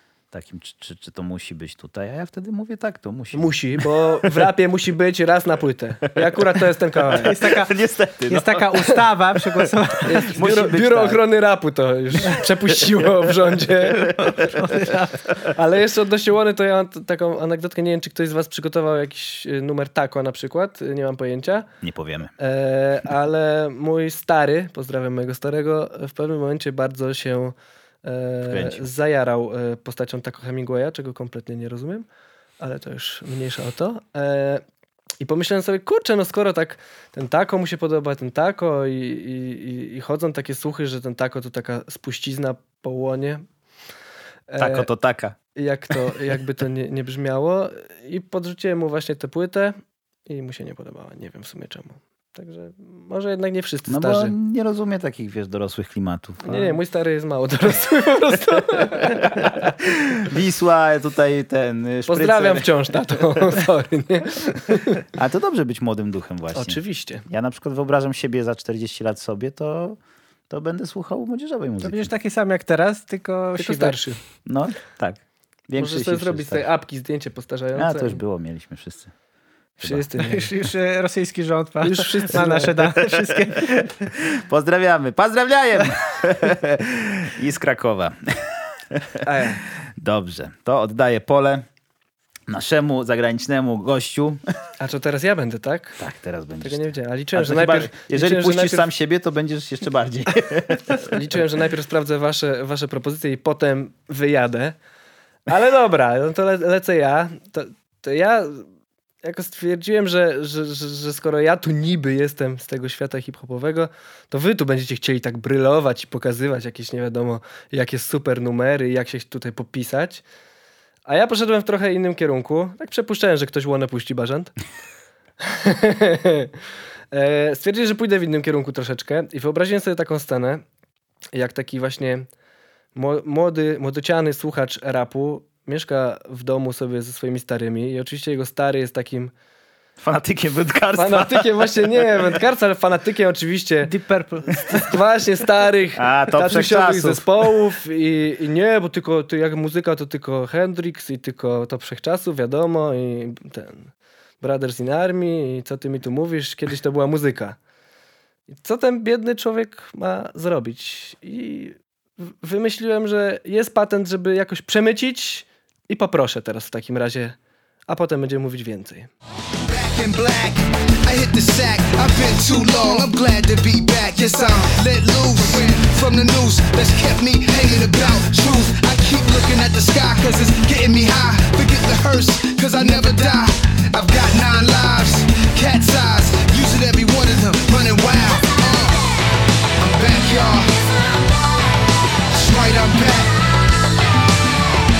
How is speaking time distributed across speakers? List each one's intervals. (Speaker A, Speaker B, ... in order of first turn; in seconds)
Speaker A: 0.3-4.4, 7.3-9.1, 10.0-11.2, 14.1-14.7, 21.8-22.3, 28.5-28.9, 44.6-45.4, 53.9-56.8, 59.2-62.7, 65.1-70.0, 70.5-72.1, 74.5-76.6, 77.8-79.1, 79.8-80.0, 82.8-88.3, 88.9-89.2, 90.0-91.7, 92.5-94.4, 96.0-101.1, 140.0-142.2, 145.9-147.5
Speaker B: 3.3-7.4, 10.0-14.1, 15.5-21.7, 22.4-32.0, 32.6-34.6, 35.2-43.4, 44.5-44.9, 45.5-49.8, 50.3-54.3, 56.4-59.7, 62.1-65.0, 66.5-67.2, 73.6-74.2, 75.8-78.2, 79.8-80.5, 81.8-82.8, 89.2-89.6, 94.8-96.0, 96.6-98.9, 101.0-104.8, 105.5-108.7, 109.2-120.2, 121.0-124.5, 125.4-126.5, 127.1-130.6, 131.3-132.3, 132.9-139.3, 140.9-143.9, 144.8-157.6, 158.5-167.4, 167.9-169.1
Speaker C: 7.2-7.7, 8.3-10.2, 14.2-15.3, 71.8-74.0, 80.2-83.9, 143.8-144.9
Speaker D: 169.6-189.1, 189.8-190.7, 192.3-193.4